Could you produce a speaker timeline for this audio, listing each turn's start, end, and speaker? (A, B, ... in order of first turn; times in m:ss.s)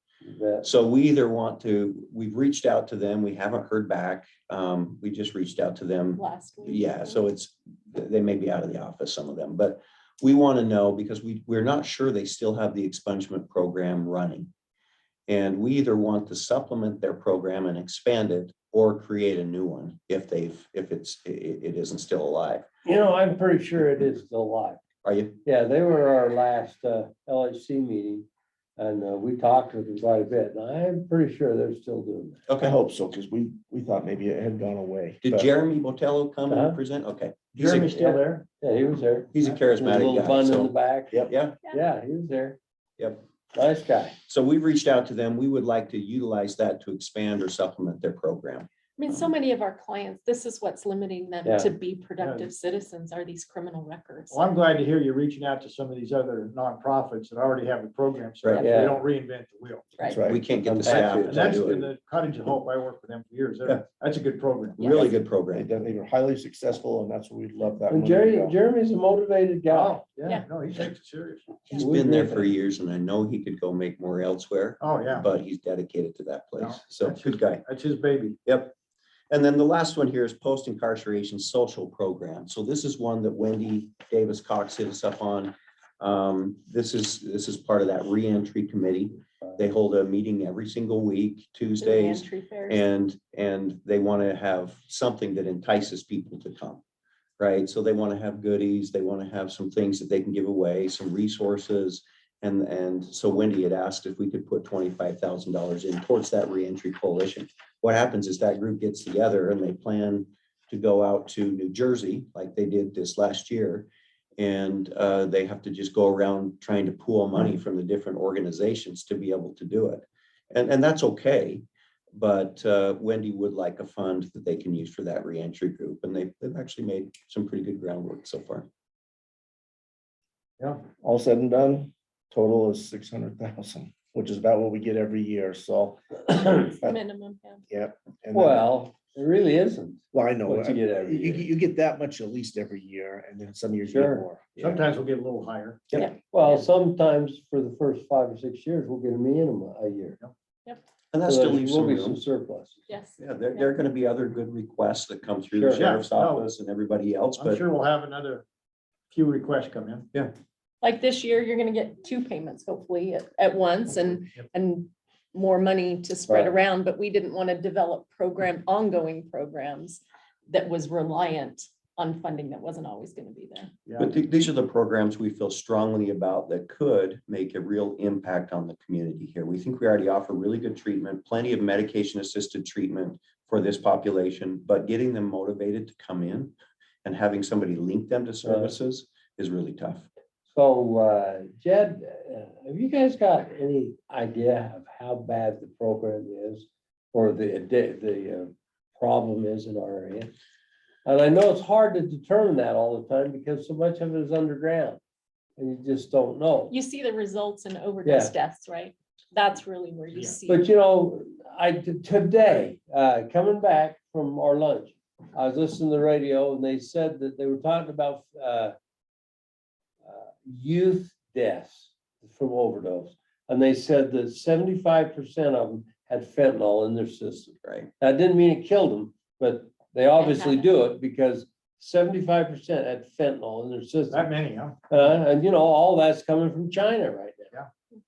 0:00.2-0:00.6 A
0:00.6-0:14.5 B
0:06.1-0:07.3 C
0:15.3-0:22.6 B
0:22.8-0:24.8 A
0:25.0-0:25.4 B
0:25.4-0:32.4 A
0:32.5-0:32.8 B
0:32.6-0:35.5 D
0:35.2-0:38.0 B
0:36.5-0:36.8 A
0:37.5-0:38.4 E
0:37.8-0:42.6 A
0:39.3-0:40.7 B
0:41.3-0:41.6 B
0:43.0-0:43.2 B
0:43.5-0:44.2 A
0:44.3-0:49.3 B
0:49.0-0:54.4 C
0:51.4-0:51.7 A
0:52.2-0:52.5 E
0:54.3-1:00.0 E
0:58.4-0:58.7 B
0:58.6-0:59.0 A
1:00.0-1:00.2 C
1:00.0-1:00.4 D
1:00.2-1:01.9 B
1:00.6-1:01.6 A
1:00.8-1:04.9 E
1:04.8-1:05.1 C
1:04.8-1:05.7 B
1:05.0-1:08.6 D
1:07.9-1:10.0 A
1:09.7-1:11.6 E
1:11.7-1:17.6 B
1:11.7-1:12.5 A
1:14.8-1:15.3 E
1:16.6-1:18.4 E
1:18.4-1:18.7 B
1:19.3-1:36.8 B
1:31.8-1:32.8 C
1:37.4-2:08.7 B
2:10.6-2:10.8 E
2:10.9-2:16.0 D
2:16.3-2:16.7 A
2:16.6-2:17.6 C
2:17.7-2:18.7 D
2:18.3-2:21.5 A
2:20.1-2:24.8 D
2:23.9-2:24.3 A
2:24.6-2:26.0 E
2:25.9-2:26.6 C
2:26.3-2:30.2 A
2:31.1-2:32.2 B
2:31.2-2:32.8 A
2:32.9-2:33.7 C
2:33.2-2:37.6 B
2:35.5-2:35.9 A
2:35.7-2:36.5 E
2:37.4-2:38.4 E
2:39.1-2:40.1 E
2:40.8-2:53.7 C
2:46.3-2:46.5 A
2:53.8-2:54.1 E
2:54.0-3:10.1 B
3:08.4-3:08.8 A
3:10.5-3:20.3 A
3:21.0-3:25.0 A
3:25.6-3:26.7 A
3:26.7-3:30.7 C
3:28.0-3:28.3 A
3:30.5-3:38.8 A
3:40.0-3:54.3 A
3:47.6-3:47.9 B
3:50.2-3:50.7 C
3:54.1-3:54.8 E
3:54.9-3:57.5 A